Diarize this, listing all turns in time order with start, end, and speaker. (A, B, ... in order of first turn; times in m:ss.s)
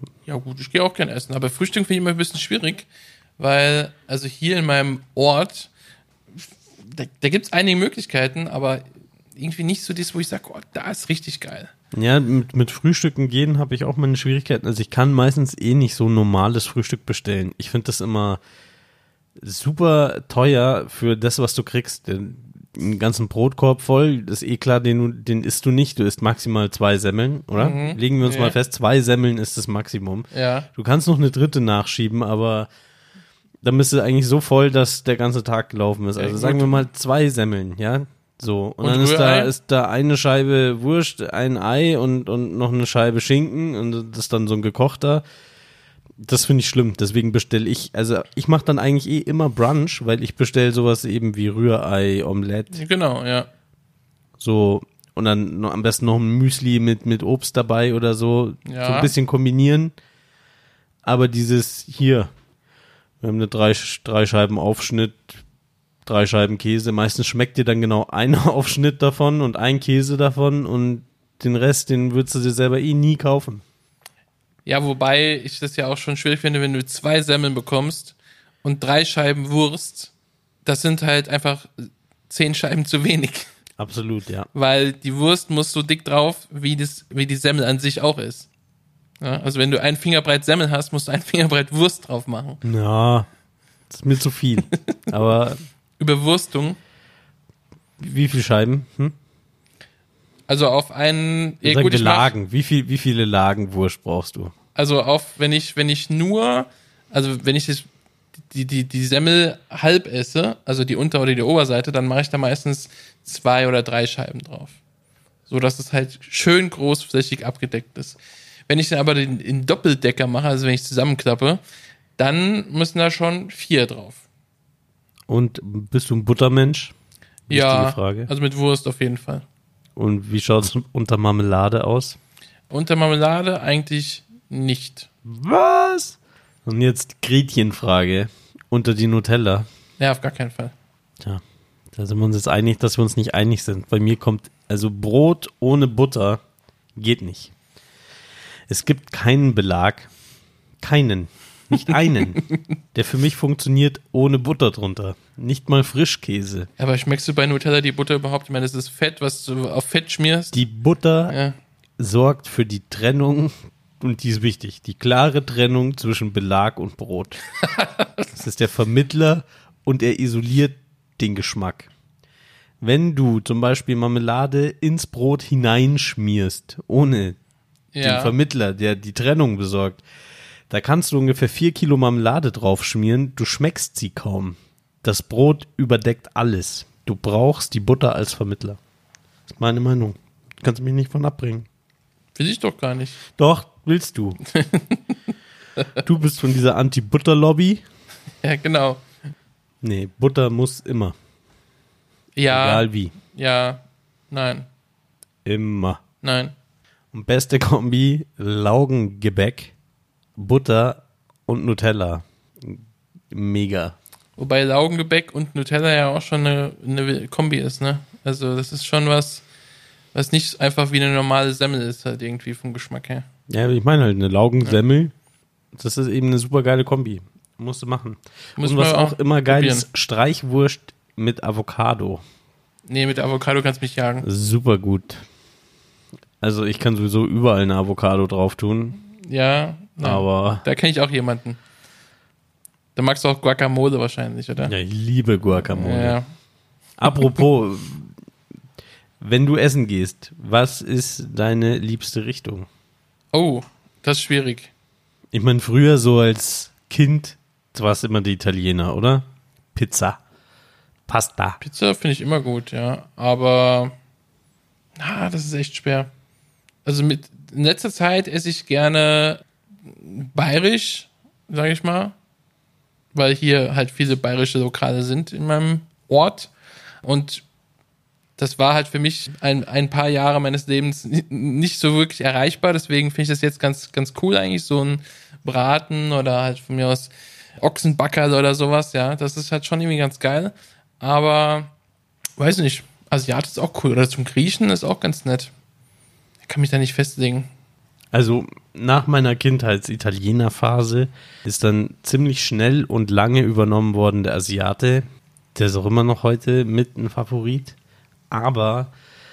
0:00.2-0:02.9 A
0:03.4-0:05.7 A
0:06.4-0:08.8 A
0:09.4-0:11.7 A
0:11.9-0:18.4 B
0:19.4-0:32.7 B
0:27.6-0:28.6 A
0:30.3-0:30.7 A
0:33.6-0:45.2 B
0:36.2-0:36.8 A
0:38.8-0:39.5 A
0:46.2-0:52.8 B
0:52.7-0:53.5 A
0:54.4-0:59.9 B
0:58.6-0:59.1 A
1:01.0-1:02.3 B
1:03.2-1:05.4 B
1:06.0-1:13.6 B
1:14.6-1:20.1 A
1:20.6-1:23.5 A
1:23.8-1:24.5 B
1:24.5-1:28.5 A
1:29.2-1:32.6 A
1:32.6-1:33.3 B
1:33.9-1:35.6 B
1:36.0-1:36.8 A
1:38.0-1:39.2 B
1:40.5-1:42.3 A
1:41.6-1:44.5 B
1:44.7-1:47.9 A
1:48.5-1:54.8 A
1:55.5-2:01.6 A
2:02.2-2:04.2 A
2:05.3-2:06.9 B
2:07.5-2:08.3 B
2:07.5-2:09.4 A
2:10.0-2:12.2 B
2:12.7-2:15.1 A
2:15.2-2:19.7 B
2:20.0-2:20.7 A
2:21.9-2:26.4 B
2:27.0-2:27.5 B
2:28.7-2:30.1 B
2:30.8-2:32.4 B
2:32.9-2:36.7 B
2:36.8-2:40.5 A
2:40.5-2:41.4 B
2:41.3-2:41.5 A
2:42.0-2:47.4 B
2:47.6-2:48.2 A
2:48.3-2:51.9 B
2:52.8-2:57.4 B
2:57.9-2:58.3 A
2:58.0-3:00.0 B
3:00.7-3:08.8 B
3:09.5-3:11.7 B
3:12.3-3:13.2 A
3:13.3-3:14.4 B
3:14.5-3:15.2 A
3:16.0-3:17.8 B
3:18.4-3:19.0 A
3:19.8-3:21.1 B
3:22.4-3:24.7 A
3:22.5-3:23.1 B
3:25.4-3:26.0 B
3:26.2-3:26.5 A
3:27.1-3:29.7 B
3:30.4-3:34.0 B
3:34.4-3:39.4 A
3:40.1-3:43.2 A
3:43.5-3:45.1 B
3:45.7-3:52.2 B
3:48.6-3:49.8 A
3:52.9-3:54.2 A
3:54.2-3:55.2 B
3:56.4-3:59.0 B
3:59.1-4:01.6 A
4:00.0-4:00.6 B
4:03.0-4:04.7 A
4:04.6-4:06.2 B
4:05.7-4:06.2 A
4:07.0-4:08.1 B
4:09.2-4:12.7 B
4:13.3-4:14.7 A
4:15.3-4:20.2 B
4:21.1-4:21.6 B
4:21.6-4:23.9 A
4:25.0-4:26.1 A
4:26.8-4:32.1 A
4:33.1-4:36.5 A
4:37.0-4:37.4 A
4:38.4-4:51.7 A
4:52.4-4:55.5 A
4:56.4-4:57.5 A
4:58.1-5:07.8 B
5:08.3-5:08.9 B